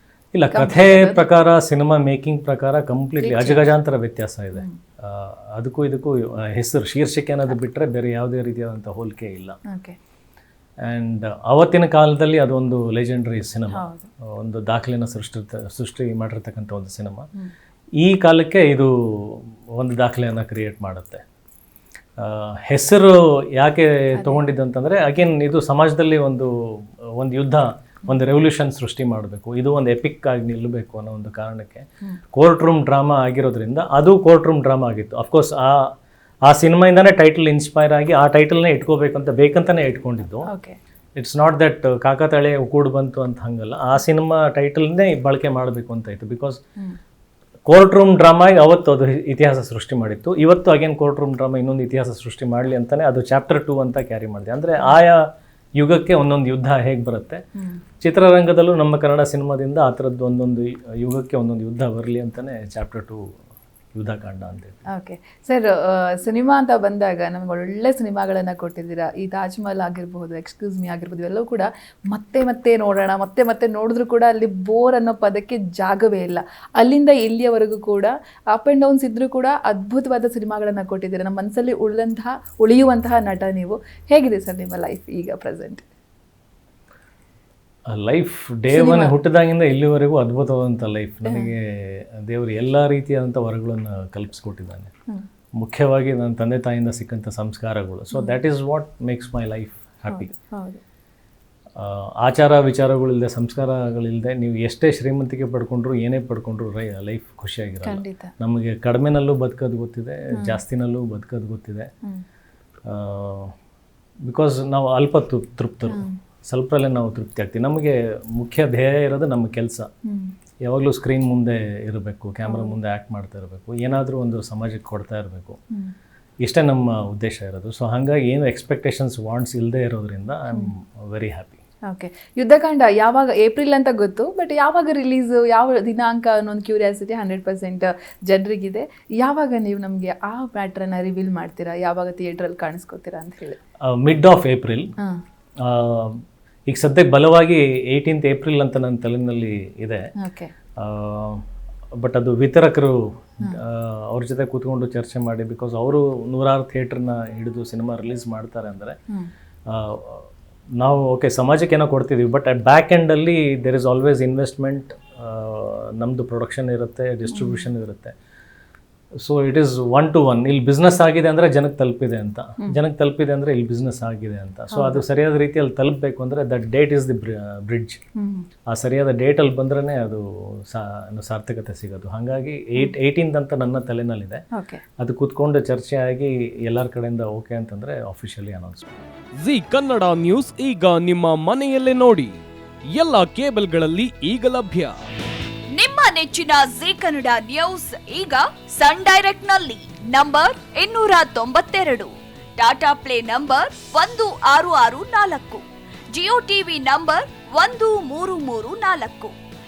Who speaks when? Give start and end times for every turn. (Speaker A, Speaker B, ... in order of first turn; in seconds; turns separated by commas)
Speaker A: 0.3-9.6, Speaker B: 0.5-1.2, Speaker B: 3.2-3.7, Speaker B: 9.7-9.9, Speaker A: 10.8-17.3, Speaker B: 13.7-14.1, Speaker A: 18.0-21.2, Speaker A: 22.2-35.9, Speaker A: 36.4-40.5, Speaker B: 40.5-40.8, Speaker A: 41.1-46.6, Speaker A: 47.6-57.4, Speaker A: 58.0-63.3, Speaker A: 63.9-64.8, Speaker B: 64.9-85.8, Speaker A: 87.9-94.9, Speaker B: 88.7-89.1, Speaker B: 91.2-91.5, Speaker A: 95.5-100.3, Speaker B: 100.1-100.8, Speaker A: 101.8-111.9, Speaker B: 107.8-108.3, Speaker B: 110.3-110.6, Speaker A: 112.8-113.5, Speaker A: 114.2-119.9, Speaker B: 115.9-116.2, Speaker B: 120.0-120.3, Speaker A: 120.6-125.6, Speaker B: 122.4-122.8, Speaker A: 126.4-131.6, Speaker B: 131.9-143.6, Speaker A: 143.8-144.9, Speaker A: 145.6-150.1, Speaker B: 150.2-150.5, Speaker A: 150.8-159.0, Speaker A: 159.7-168.1, Speaker B: 167.3-167.6, Speaker A: 169.2-178.0, Speaker B: 174.7-175.0, Speaker B: 178.2-178.5, Speaker A: 178.7-184.4, Speaker B: 184.5-184.8, Speaker A: 185.0-188.8, Speaker C: 189.4-192.4, Speaker C: 192.9-195.0, Speaker D: 195.7-209.3